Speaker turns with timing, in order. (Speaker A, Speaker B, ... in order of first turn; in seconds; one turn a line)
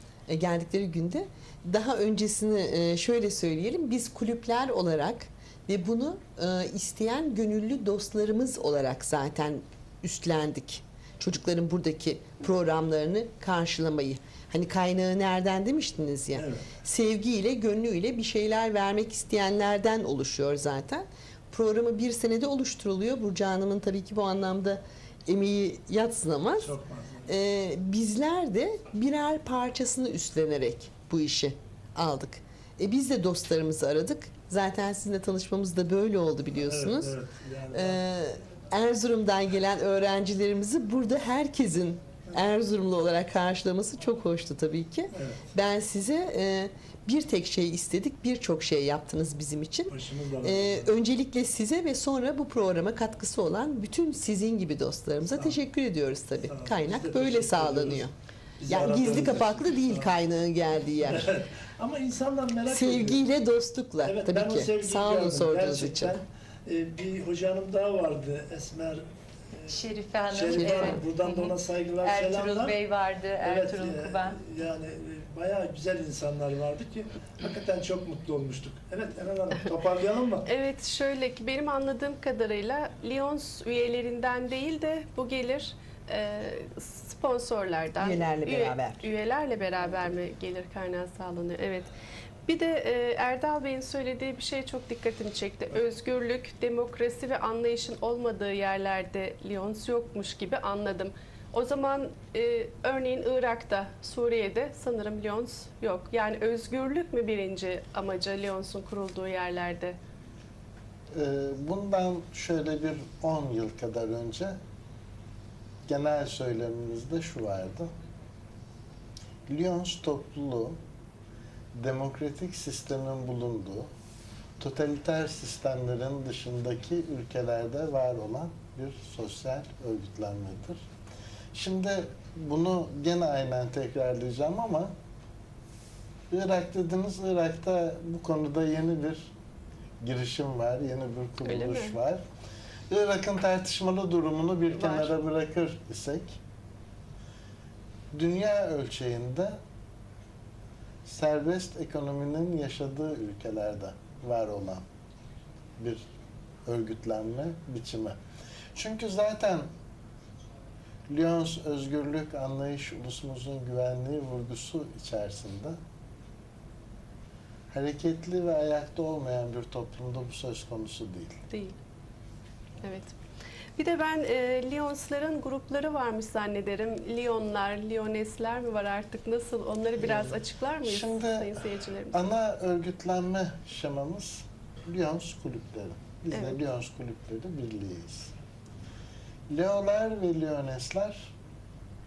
Speaker A: 0.3-37.1
Speaker B: 16.4-16.6
Speaker B: 26.6-27.3
Speaker B: 36.6-38.0
Speaker A: 37.7-58.1
Speaker B: 45.1-45.5
Speaker B: 49.9-50.9
Speaker B: 56.4-58.1
Speaker B: 58.6-60.1
Speaker A: 58.7-61.3
Speaker B: 61.0-63.2
Speaker A: 62.7-66.2
Speaker B: 64.0-72.8
Speaker C: 69.7-74.4
Speaker B: 73.4-80.5
Speaker D: 80.5-91.9
Speaker A: 88.0-89.1
Speaker D: 92.5-110.0
Speaker E: 111.1-114.6
Speaker E: 115.9-117.9
Speaker E: 119.5-120.8
Speaker E: 121.7-123.9
Speaker E: 124.6-130.8
Speaker E: 131.5-134.9
Speaker E: 136.3-139.3
Speaker E: 140.0-142.2
Speaker D: 141.4-141.9
Speaker E: 142.9-146.4
Speaker D: 144.8-145.1
Speaker E: 148.1-149.6
Speaker E: 151.1-154.8
Speaker E: 155.8-156.0
Speaker E: 156.7-158.2
Speaker E: 158.7-159.7
Speaker E: 161.1-165.8
Speaker E: 167.7-171.4
Speaker D: 171.5-171.8
Speaker D: 172.8-173.1
Speaker D: 173.8-182.2
Speaker E: 180.8-181.6
Speaker E: 182.1-188.3
Speaker D: 186.3-186.6
Speaker E: 189.5-191.3